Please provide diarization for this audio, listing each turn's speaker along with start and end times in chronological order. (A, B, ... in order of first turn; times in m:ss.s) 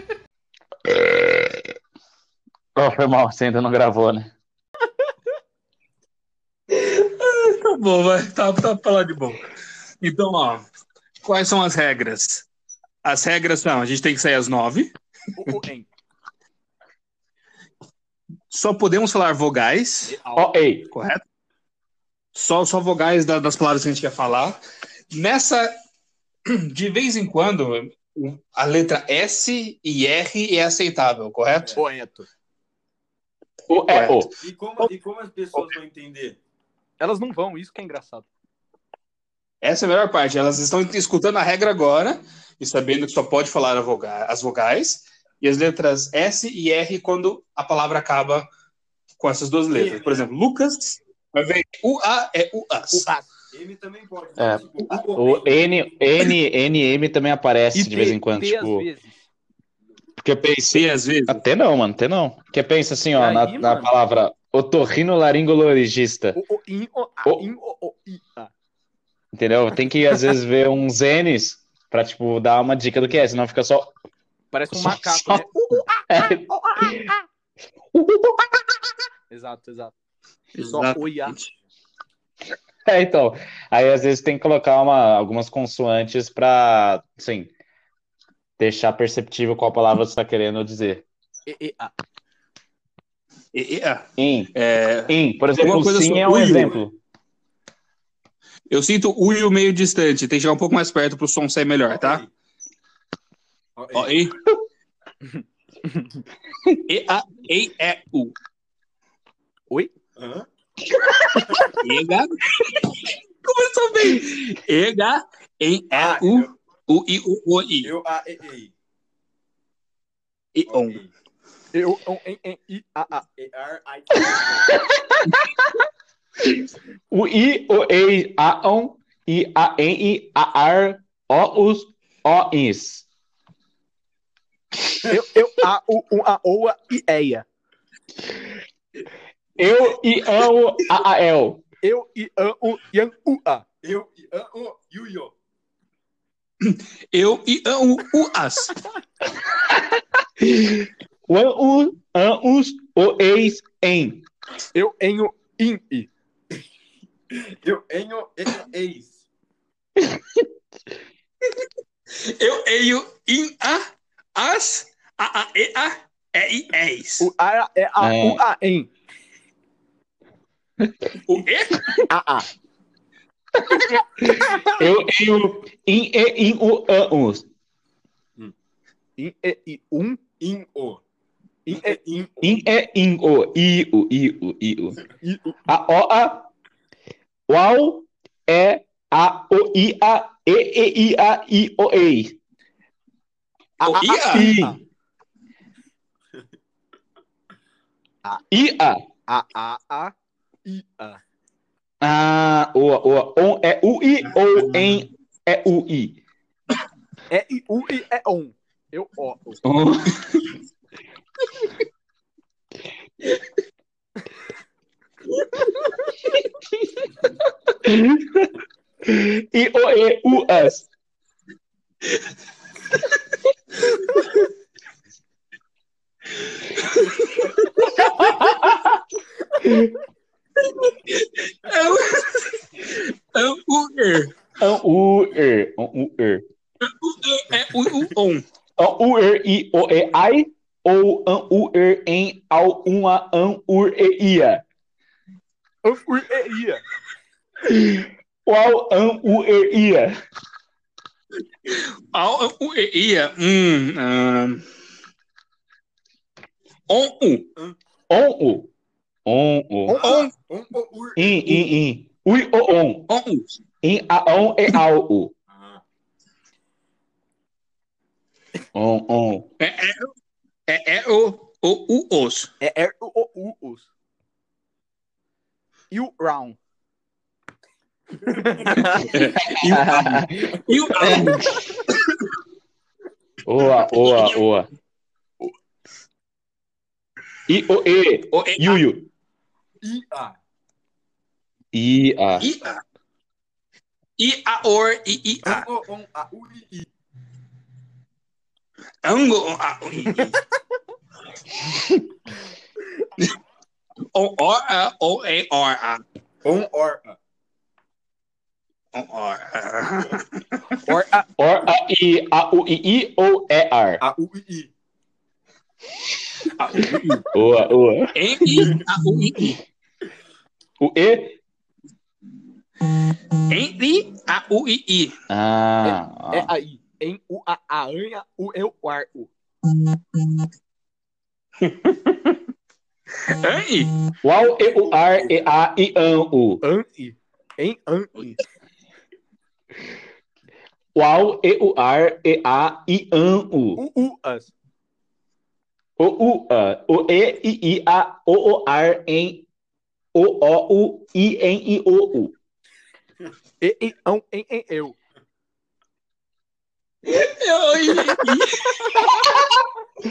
0:00.8-0:01.6 A
0:02.8-0:04.3 A
0:06.7-0:09.4 B
0:10.0-0:10.6 B
0:11.2-0:12.5 B
0:13.0-0:14.9 B
0:15.4-0:15.9 C
0:18.5-0:20.2 B
0:20.1-0:20.4 C
0:20.3-0:20.9 A
0:20.9-0:21.2 B
0:22.3-0:24.6 B
0:25.1-0:25.7 B
0:26.5-0:31.8 B
0:31.8-0:32.3 C
0:33.7-0:34.3 A
0:33.9-0:34.3 B
0:34.4-0:36.4 D
0:37.0-0:38.3 C
0:39.6-0:48.5 B
0:49.2-0:53.0 B
0:49.7-0:50.3 D
0:52.9-0:53.3 C
0:53.5-0:55.6 D
0:54.4-0:55.0 B
0:55.2-0:58.9 A
0:57.7-0:59.2 C
1:00.2-1:06.4 A
1:00.7-1:01.4 B
1:03.1-1:03.9 C
1:06.4-1:08.5 C
1:09.3-1:13.9 A
1:14.5-1:15.8 C
1:14.7-1:15.5 A
1:16.1-1:17.2 A
1:17.9-1:18.6 A
1:19.3-1:19.9 C
1:20.5-1:21.5 B
1:20.6-1:21.4 C
1:22.8-1:27.5 A
1:28.6-1:31.0 A
1:31.5-1:31.9 C
1:33.5-1:36.8 B
1:34.2-1:34.5 A
1:35.1-1:37.0 A
1:38.7-1:42.2 B
1:41.9-1:42.3 D
1:43.8-1:44.2 D
1:43.9-1:44.4 B
1:45.2-1:46.2 C
1:46.9-1:48.3 B
1:50.2-1:50.4 D
1:51.8-1:57.9 B
1:55.9-1:56.5 D
1:57.8-1:58.7 D
2:00.5-2:01.0 B
2:00.7-2:01.1 D
2:01.7-2:03.2 C
2:03.3-2:04.8 D
2:04.9-2:05.7 A
2:07.1-2:13.0 A
2:15.1-2:17.4 C
2:19.6-2:21.6 A
2:21.8-2:23.6 C
2:23.8-2:25.3 D
2:26.6-2:28.8 B
2:29.4-2:34.2 A
2:34.7-2:36.1 C
2:37.3-2:39.2 D
2:40.0-2:40.4 A
2:42.1-2:47.3 B
2:47.2-2:48.9 C
2:48.0-2:48.4 A
2:50.8-2:51.1 A
2:51.2-2:51.9 B
2:52.1-2:52.4 C
2:53.6-2:57.4 A
2:59.2-3:00.2 C
3:00.4-3:01.0 D
3:01.6-3:02.3 C
3:01.7-3:02.3 D
3:02.4-3:05.0 A
3:05.2-3:05.5 C
3:05.7-3:06.5 A
3:07.5-3:12.4 A
3:13.8-3:14.8 C
3:13.8-3:14.5 B
3:14.3-3:14.8 A
3:18.5-3:19.0 A
3:19.3-3:20.1 C
3:20.6-3:21.2 C
3:22.0-3:26.2 A
3:24.3-3:25.0 B
3:27.3-3:29.6 C
3:29.6-3:30.5 A
3:37.8-3:38.5 A
3:39.0-3:40.9 A
3:46.8-3:48.3 B
3:48.2-3:49.0 A
3:49.6-3:49.9 A
3:50.6-3:54.4 B
3:54.6-3:56.4 A
3:56.8-3:58.4 B
3:58.8-4:04.6 A
4:05.8-4:06.8 C
4:07.6-4:10.1 A
4:11.6-4:14.6 B
4:16.9-4:17.5 B
4:18.1-4:18.7 A
4:19.2-4:20.0 A
4:19.9-4:20.3 C
4:19.9-4:21.7 D
4:20.0-4:20.3 B
4:21.2-4:23.1 A
4:23.1-4:23.6 B
4:23.8-4:25.3 A
4:25.5-4:25.8 D
4:28.7-4:29.5 A
4:29.6-4:30.1 B
4:30.7-4:32.5 B
4:32.6-4:33.9 C
4:35.9-4:36.6 C
4:38.3-4:39.0 C
4:38.7-4:39.0 D
4:39.0-4:41.5 B
4:39.2-4:41.6 A
4:43.4-4:44.7 A
4:43.9-4:44.5 B
4:47.5-4:49.1 A
4:48.3-4:48.8 B
4:49.8-4:50.4 D
4:51.7-4:52.5 A
4:52.4-4:52.8 B
4:54.2-4:55.7 B
4:55.4-4:56.9 D
4:59.0-5:00.4 B
5:01.7-5:02.0 A
5:04.1-5:06.0 B
5:06.4-5:07.2 D
5:08.9-5:10.8 B
5:10.9-5:11.3 C
5:11.4-5:14.0 A
5:14.0-5:14.7 D
5:16.5-5:17.2 B
5:17.3-5:18.7 A
5:18.1-5:19.6 B
5:20.8-5:21.4 A
5:23.5-5:25.1 B
5:25.3-5:26.5 A
5:25.8-5:29.3 C
5:31.6-5:32.1 B
5:33.2-5:33.9 B
5:34.2-5:36.6 A
5:34.6-5:35.4 D
5:36.6-5:38.4 C
5:40.9-5:43.8 A
5:43.8-5:44.5 C
5:46.0-5:49.4 A
5:50.1-5:52.3 A
5:53.6-5:55.0 C
5:57.0-5:59.3 B